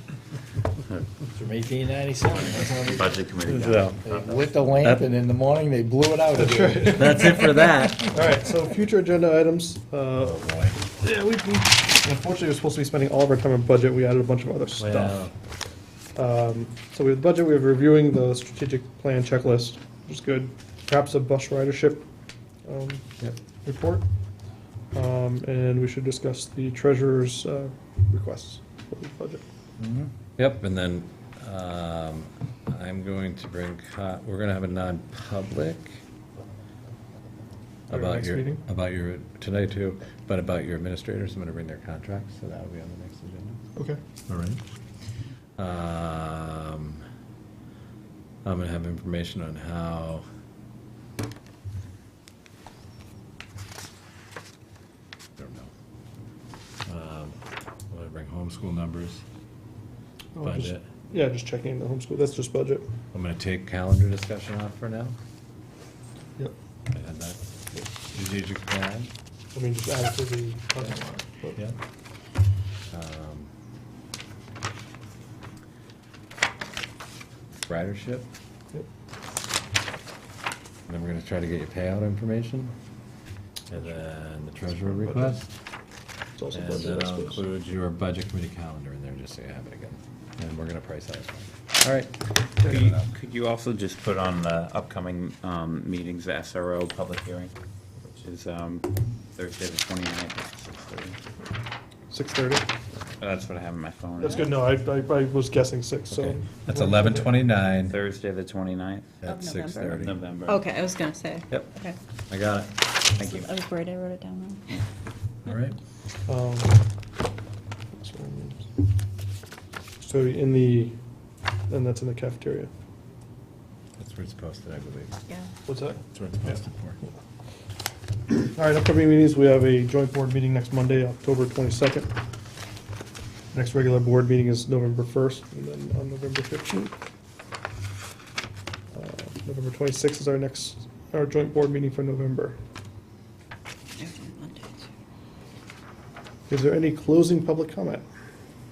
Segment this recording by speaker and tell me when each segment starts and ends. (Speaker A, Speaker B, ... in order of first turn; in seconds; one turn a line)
Speaker A: 1.4-3.2
Speaker B: 2.3-4.5
Speaker C: 3.5-4.0
Speaker A: 4.0-7.4
Speaker C: 4.8-5.1
Speaker D: 6.3-10.4
Speaker C: 6.9-8.2
Speaker C: 10.2-10.8
Speaker D: 11.0-15.2
Speaker C: 14.8-15.3
Speaker D: 16.1-22.1
Speaker D: 22.6-23.1
Speaker D: 23.6-24.0
Speaker D: 24.9-29.4
Speaker A: 29.8-30.1
Speaker C: 30.4-36.0
Speaker C: 37.9-43.6
Speaker D: 37.9-38.6
Speaker C: 44.3-44.6
Speaker C: 45.6-47.0
Speaker C: 48.4-50.2
Speaker C: 55.4-55.7
Speaker C: 56.9-57.4
Speaker C: 57.9-59.2
Speaker D: 60.4-62.9
Speaker C: 60.4-60.8
Speaker C: 63.1-65.2
Speaker C: 66.9-67.4
Speaker C: 68.1-69.1
Speaker D: 69.5-71.6
Speaker C: 72.9-73.5
Speaker C: 77.7-78.3
Speaker C: 80.9-82.7
Speaker C: 83.7-85.5
Speaker D: 84.9-85.4
Speaker D: 86.4-87.4
Speaker C: 86.5-92.0
Speaker B: 92.6-97.5
Speaker D: 92.6-92.9
Speaker C: 92.7-93.1
Speaker B: 98.2-101.2
Speaker D: 102.1-102.7
Speaker B: 103.2-104.5
Speaker D: 104.2-107.3
Speaker C: 106.1-108.0
Speaker B: 107.9-109.2
Speaker C: 109.2-110.2
Speaker E: 109.2-112.0
Speaker B: 110.0-110.7
Speaker C: 112.3-112.7
Speaker B: 113.2-113.6
Speaker E: 113.2-114.6
Speaker C: 115.5-115.8
Speaker D: 116.3-116.8
Speaker D: 118.0-118.7
Speaker D: 120.0-121.0
Speaker D: 121.7-122.7
Speaker C: 124.0-125.1
Speaker D: 125.7-126.6
Speaker C: 126.1-127.0
Speaker D: 128.3-132.1
Speaker D: 133.5-136.9
Speaker D: 138.9-142.6
Speaker E: 144.0-144.8
Speaker D: 146.5-148.1